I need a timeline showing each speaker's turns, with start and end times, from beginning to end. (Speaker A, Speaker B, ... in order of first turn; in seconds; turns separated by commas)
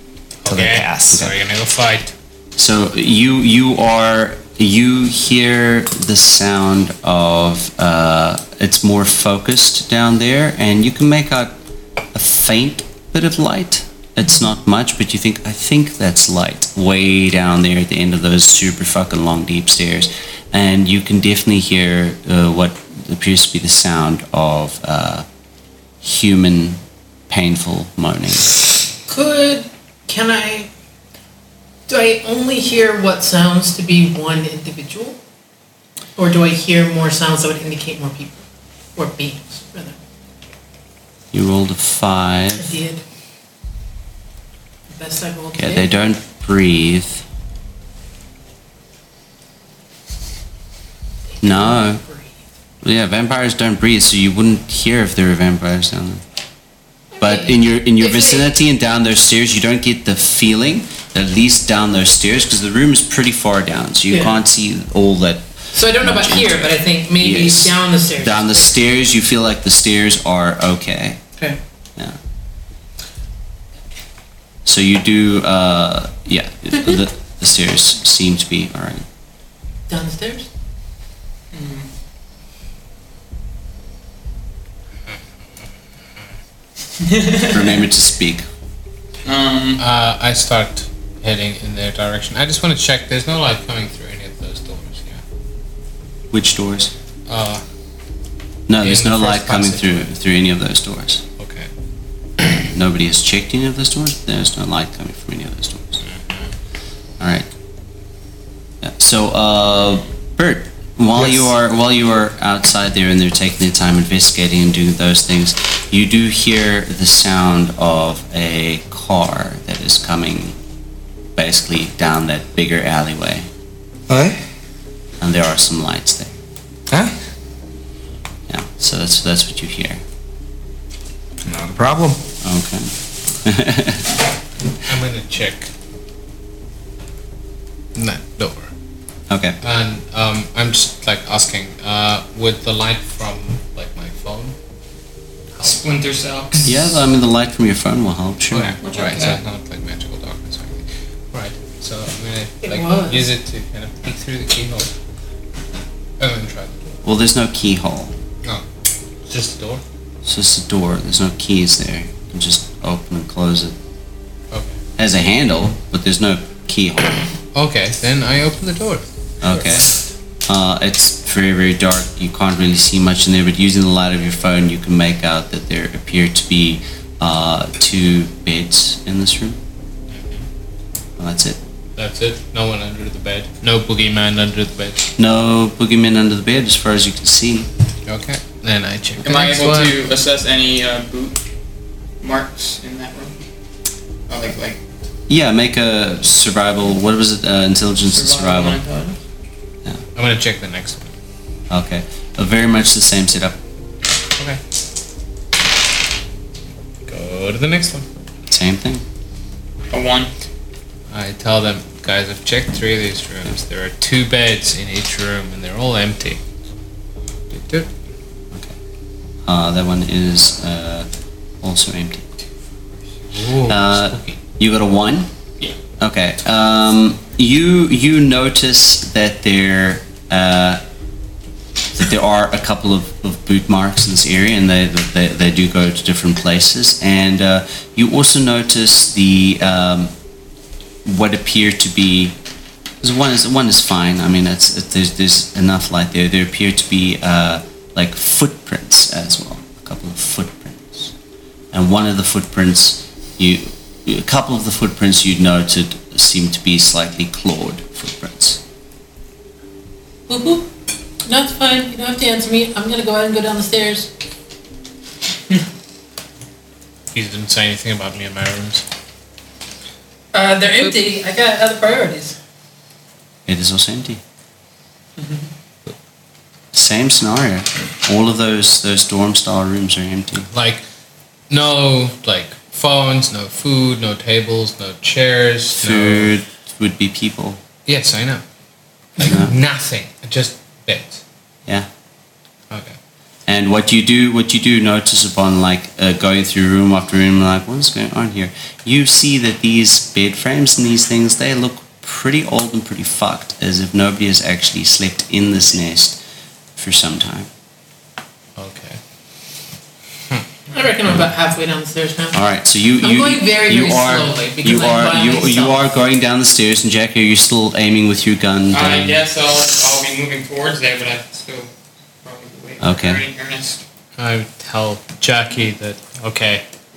Speaker A: 0.4-2.1, Speaker B: 0.5-1.3, Speaker C: 2.5-11.5, Speaker C: 12.1-25.2, Speaker C: 26.0-28.5, Speaker D: 29.1-30.7, Speaker D: 31.9-35.2, Speaker D: 36.2-38.4, Speaker D: 39.0-40.0, Speaker C: 41.3-42.7, Speaker D: 42.5-43.0, Speaker D: 44.9-45.9, Speaker C: 45.5-47.2, Speaker D: 51.4-52.4, Speaker C: 51.4-52.0, Speaker C: 52.8-56.2, Speaker D: 57.1-58.5, Speaker C: 57.2-71.2, Speaker D: 64.1-64.4, Speaker D: 65.7-68.7, Speaker C: 74.7-79.0, Speaker D: 79.9-80.5, Speaker E: 81.5-81.9, Speaker E: 87.0-87.5, Speaker C: 87.5-88.5, Speaker E: 89.2-89.8, Speaker A: 89.8-95.2, Speaker C: 96.3-96.9, Speaker A: 97.3-97.6, Speaker C: 98.7-101.2, Speaker A: 98.8-100.0, Speaker A: 101.4-101.7, Speaker C: 102.7-106.0, Speaker A: 106.0-106.5, Speaker C: 107.2-107.5, Speaker C: 108.8-120.5, Speaker C: 121.3-123.5, Speaker B: 124.1-124.4, Speaker C: 125.2-126.3, Speaker B: 126.9-127.1, Speaker C: 128.5-130.0, Speaker B: 131.4-132.2, Speaker C: 132.4-132.9, Speaker C: 133.4-134.0, Speaker A: 134.8-135.7, Speaker A: 137.9-138.7, Speaker C: 139.3-139.6, Speaker A: 139.6-144.5, Speaker A: 145.5-145.9, Speaker E: 145.6-146.7, Speaker C: 146.6-148.8, Speaker A: 148.5-154.9, Speaker E: 148.8-149.4, Speaker D: 152.6-153.2, Speaker A: 156.2-156.9, Speaker C: 157.0-158.1, Speaker A: 159.3-159.8, Speaker C: 160.2-163.7, Speaker C: 165.0-167.2, Speaker A: 167.5-169.8, Speaker C: 169.4-169.9, Speaker C: 170.5-179.6, Speaker A: 180.1-180.4, Speaker C: 181.2-181.6, Speaker A: 182.0-185.0, Speaker C: 185.2-187.7, Speaker A: 188.1-190.0, Speaker E: 189.2-191.4, Speaker E: 192.2-193.5, Speaker E: 194.3-194.8, Speaker C: 195.3-198.8, Speaker E: 198.1-199.2, Speaker A: 200.2-201.1, Speaker C: 201.7-203.6, Speaker A: 207.1-208.1, Speaker C: 208.5-209.0, Speaker E: 209.9-210.3, Speaker A: 211.1-216.4, Speaker A: 217.5-217.9, Speaker C: 219.4-221.1, Speaker C: 221.6-222.2, Speaker A: 223.3-224.4, Speaker C: 223.7-225.3, Speaker C: 226.0-230.8, Speaker C: 231.9-240.1, Speaker C: 241.0-242.3, Speaker C: 243.0-251.1, Speaker C: 251.7-258.6, Speaker D: 260.3-260.7, Speaker D: 261.2-264.1, Speaker A: 267.1-268.8, Speaker D: 270.3-272.4, Speaker A: 270.8-271.1, Speaker C: 273.4-274.2, Speaker D: 275.2-275.4, Speaker C: 276.7-280.5, Speaker A: 280.5-280.8, Speaker A: 281.5-286.3, Speaker C: 285.8-287.6, Speaker A: 287.9-288.4, Speaker A: 289.2-291.2, Speaker C: 289.2-289.5, Speaker A: 292.7-292.9, Speaker C: 293.5-306.2, Speaker C: 306.8-307.5, Speaker A: 308.6-309.0, Speaker D: 310.7-312.4, Speaker C: 312.3-319.2, Speaker D: 313.0-315.9, Speaker E: 318.7-321.7, Speaker E: 322.2-323.8, Speaker C: 322.8-323.2, Speaker A: 324.2-326.6